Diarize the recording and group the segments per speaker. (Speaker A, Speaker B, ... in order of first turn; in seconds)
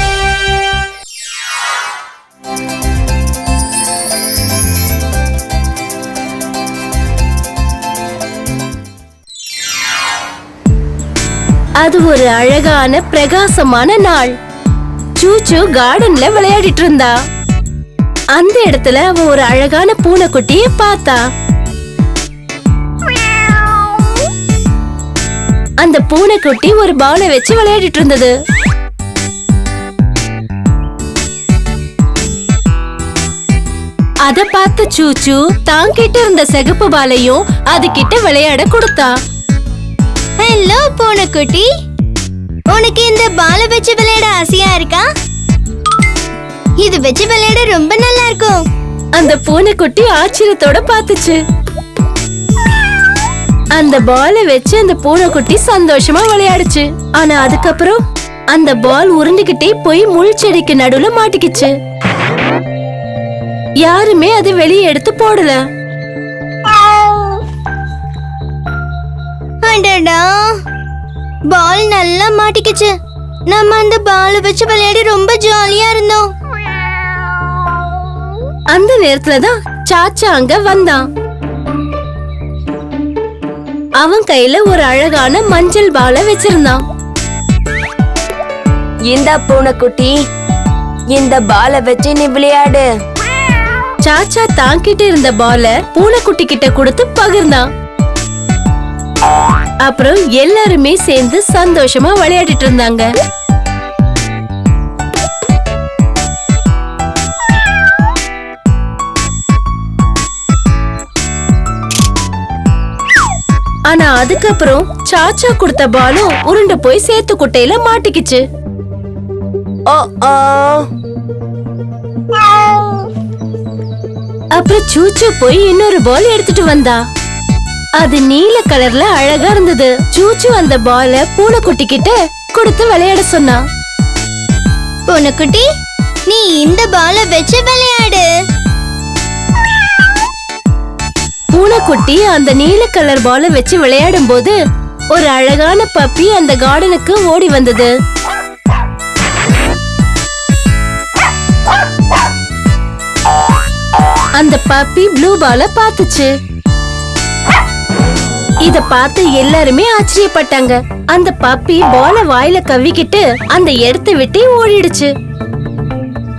Speaker A: 11.8-14.3, 15.2-17.1, 18.3-21.2, 25.8-28.3, 34.2-39.1, 49.1-51.4, 53.7-58.0, 58.5-61.7, 63.8-65.6, 78.7-81.0, 84.0-86.8, 94.0-97.6, 99.8-103.1, 113.9-118.4, 124.5-127.0, 128.0-133.6, 141.5-144.6, 145.1-147.9, 154.4-156.3, 158.6-165.1
Speaker B: 40.4-41.7, 42.7-45.0, 46.8-48.6, 66.7-67.4, 69.6-70.5, 71.5-72.9, 73.5-76.2, 135.1-135.7, 136.3-138.3
Speaker C: 89.0-90.2, 91.1-92.9, 119.9-120.9